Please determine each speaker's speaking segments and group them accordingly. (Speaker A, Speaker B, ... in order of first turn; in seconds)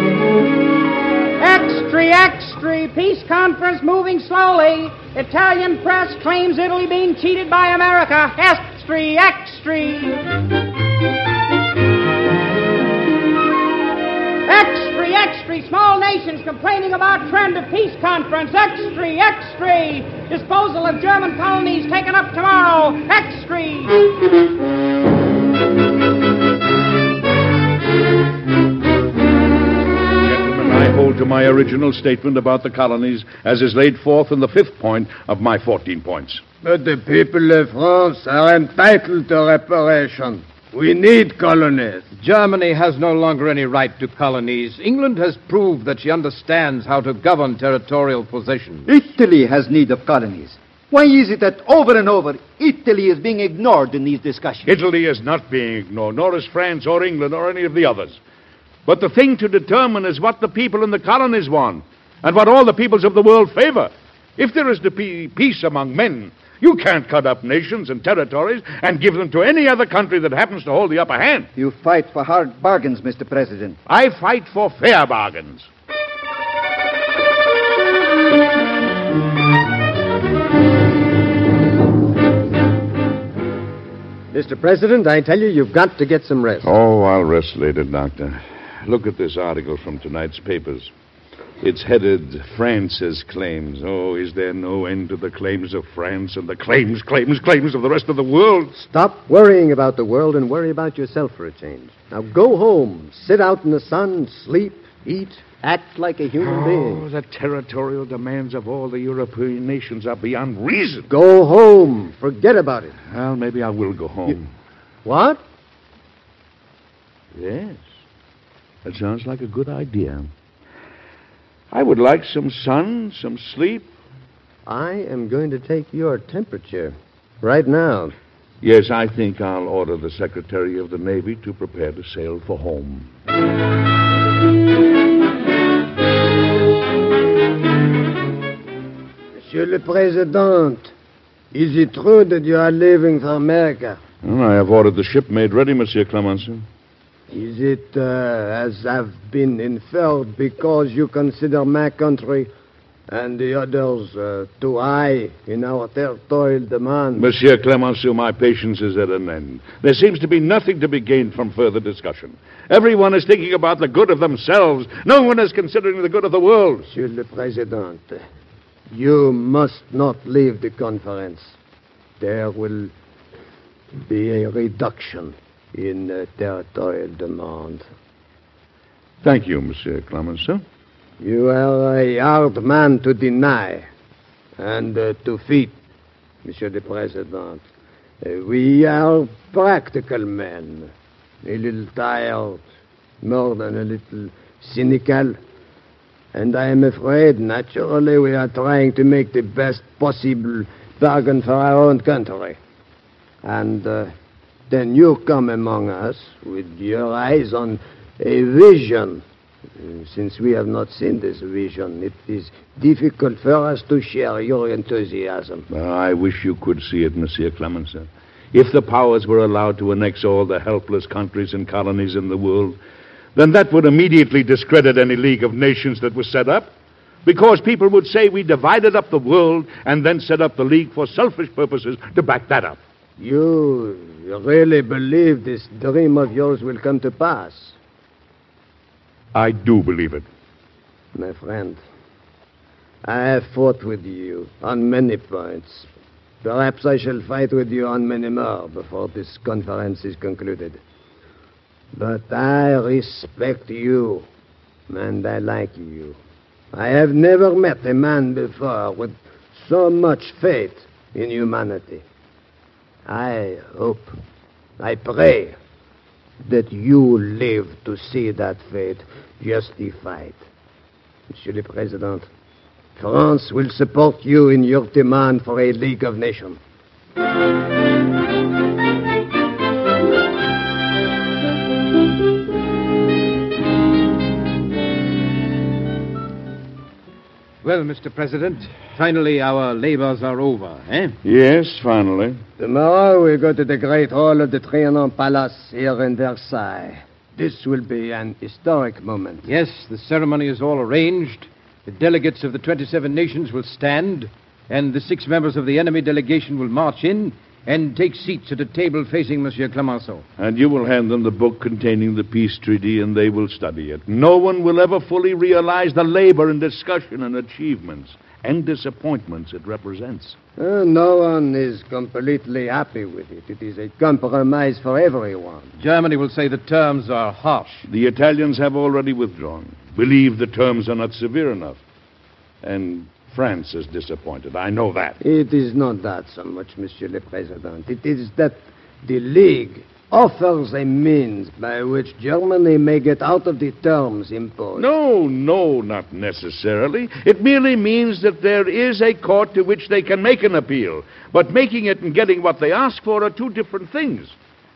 Speaker A: 1.4-10.2, 14.5-24.0
Speaker B: 30.2-36.4, 54.6-58.2, 58.9-71.5, 73.9-75.7, 86.6-90.9, 91.6-98.7, 106.4-111.1, 113.1-114.5, 117.3-117.8, 118.8-120.3, 121.7-123.9, 128.6-133.1, 144.2-146.6, 157.2-166.9, 179.2-180.6, 215.7-222.8, 223.3-226.7, 227.2-232.8, 239.3-240.2, 291.2-292.4, 310.4-320.4, 327.9-331.8, 332.6-335.2, 344.8-354.4
Speaker C: 36.6-42.1, 139.4-140.9, 141.5-144.0, 147.3-152.5, 153.1-157.2, 166.9-168.2, 168.9-171.6, 172.2-172.9, 174.1-177.8, 181.2-183.9, 184.6-185.8, 186.4-187.6, 188.2-190.9, 191.4-192.6, 193.2-195.4, 196.3-202.6, 203.4-204.1, 204.7-209.2, 209.8-215.7, 233.2-237.8, 241.1-241.8, 243.0-245.9, 246.4-250.8, 251.9-254.3, 254.9-256.2, 256.7-262.0, 263.1-264.1, 264.8-265.6, 266.4-270.4, 271.3-272.3, 272.9-276.6, 292.6-299.4, 320.6-325.7, 335.2-344.9
Speaker D: 42.1-48.9, 287.6-291.1, 299.4-310.2, 325.8-327.8
Speaker E: 48.9-54.7, 71.5-73.8
Speaker F: 84.3-86.7, 98.7-107.0, 111.1-112.9, 115.0-115.4, 124.6-128.1